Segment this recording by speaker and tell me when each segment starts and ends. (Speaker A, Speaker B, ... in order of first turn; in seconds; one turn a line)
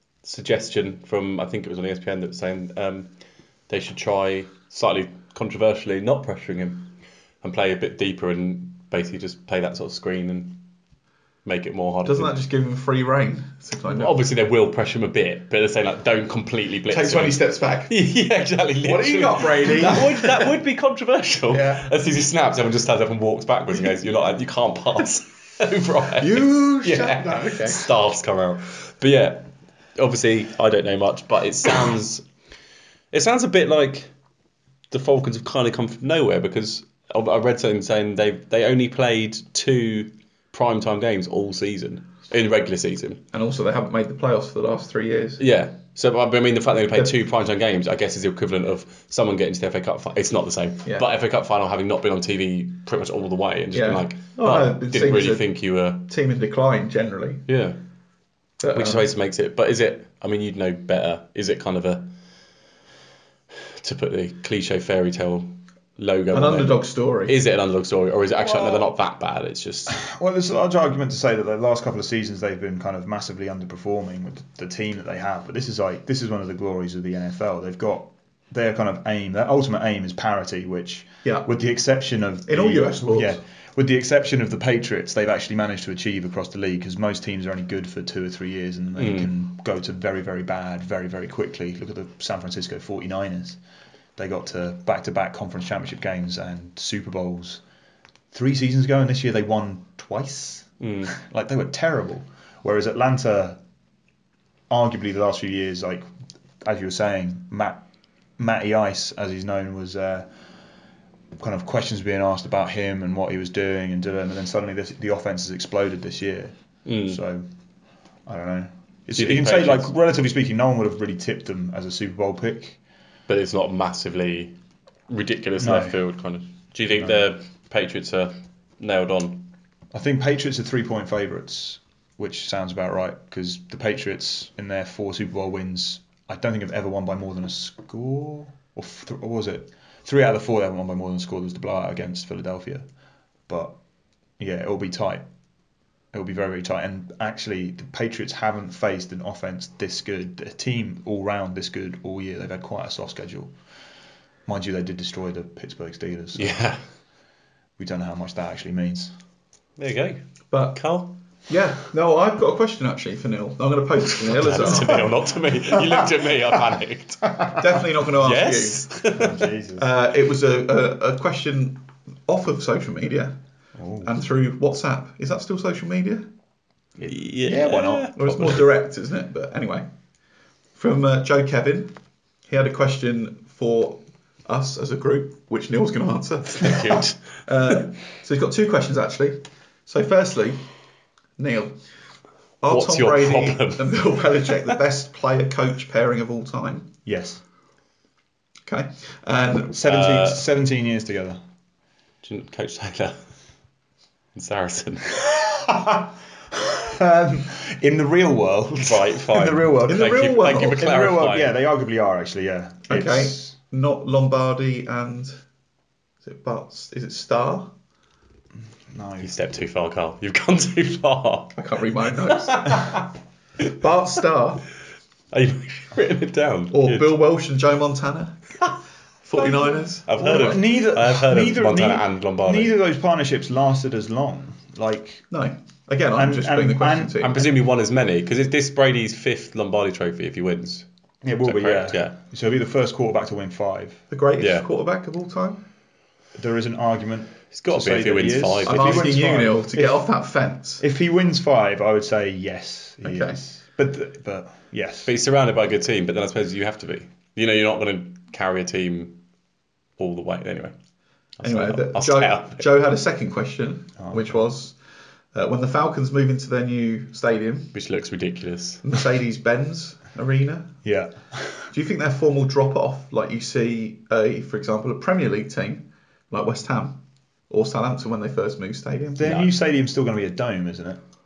Speaker A: 0.2-3.1
Speaker A: 3.7-10.7
Speaker A: 11.4-12.4
Speaker B: 12.0-14.2
Speaker A: 13.9-32.2
Speaker B: 16.9-17.9
Speaker B: 18.8-20.5
Speaker B: 21.5-21.9
Speaker B: 26.2-27.8
Speaker A: 33.1-34.1
Speaker A: 34.9-43.2
Speaker B: 43.3-45.4
Speaker A: 45.4-56.1
Speaker B: 53.7-55.5
Speaker B: 56.0-57.4
Speaker A: 57.5-57.8
Speaker B: 58.6-59.0
Speaker A: 58.7-62.1
Speaker A: 63.7-70.0
Speaker B: 66.3-67.4
Speaker C: 68.4-68.9
Speaker C: 69.9-93.6
Speaker B: 82.5-83.4
Speaker A: 89.0-89.3
Speaker C: 94.2-97.6
Speaker C: 98.3-103.6
Speaker A: 100.8-101.1
Speaker C: 104.7-106.1
Speaker C: 106.6-107.8
Speaker C: 108.4-110.3
Speaker C: 111.4-116.5
Speaker A: 116.8-117.2
Speaker C: 117.0-117.5
Speaker C: 118.2-122.8
Speaker A: 119.2-119.9
Speaker A: 123.3-124.5
Speaker A: 125.1-129.5
Speaker C: 125.6-126.0
Speaker C: 129.9-142.8
Speaker C: 143.5-143.8
Speaker C: 144.4-145.2
Speaker C: 146.1-153.5
Speaker C: 154.4-156.6
Speaker A: 156.3-156.8
Speaker C: 157.8-159.1
Speaker A: 159.8-161.1
Speaker B: 160.5-160.9
Speaker B: 161.5-165.1
Speaker A: 164.3-167.6
Speaker B: 167.6-168.9
Speaker A: 168.1-169.4
Speaker C: 169.1-169.9
Speaker B: 169.8-173.3
Speaker C: 173.8-174.1
Speaker B: 174.0-176.3
Speaker A: 177.0-178.7
Speaker C: 177.4-178.1
Speaker B: 178.1-179.9
Speaker B: 180.8-182.0
Speaker B: 182.5-190.7
Speaker A: 186.6-187.2
Speaker B: 191.4-191.8
Speaker B: 192.6-196.9
Speaker A: 192.7-194.5
Speaker C: 197.1-197.4
Speaker B: 198.7-199.8
Speaker C: 199.7-201.4
Speaker A: 199.8-200.4
Speaker A: 202.2-203.2
Speaker A: 204.3-205.2
Speaker C: 205.3-213.5
Speaker A: 208.8-211.5
Speaker B: 209.9-210.8
Speaker B: 212.9-215.4
Speaker B: 216.2-217.7
Speaker C: 218.9-219.3
Speaker A: 219.2-221.6
Speaker B: 221.5-223.0
Speaker A: 222.2-223.1
Speaker B: 223.6-224.7
Speaker A: 225.3-227.2
Speaker B: 226.7-228.5
Speaker B: 229.2-230.5
Speaker A: 229.4-232.7
Speaker C: 230.2-235.3
Speaker B: 235.3-237.4
Speaker C: 236.2-237.5
Speaker A: 237.2-240.8
Speaker C: 241.2-244.0
Speaker A: 241.4-242.2
Speaker B: 244.1-245.6
Speaker A: 244.4-244.7
Speaker C: 246.3-250.1
Speaker A: 247.5-249.2
Speaker B: 248.6-250.8
Speaker C: 250.8-255.1
Speaker B: 253.0-253.4
Speaker A: 255.1-259.2
Speaker A: 260.0-260.7
Speaker A: 261.4-262.7
Speaker B: 261.4-264.8
Speaker C: 264.0-264.4
Speaker B: 265.3-267.7
Speaker A: 267.7-268.9
Speaker B: 268.8-270.8
Speaker C: 270.8-271.7
Speaker B: 271.7-279.4
Speaker C: 279.2-281.0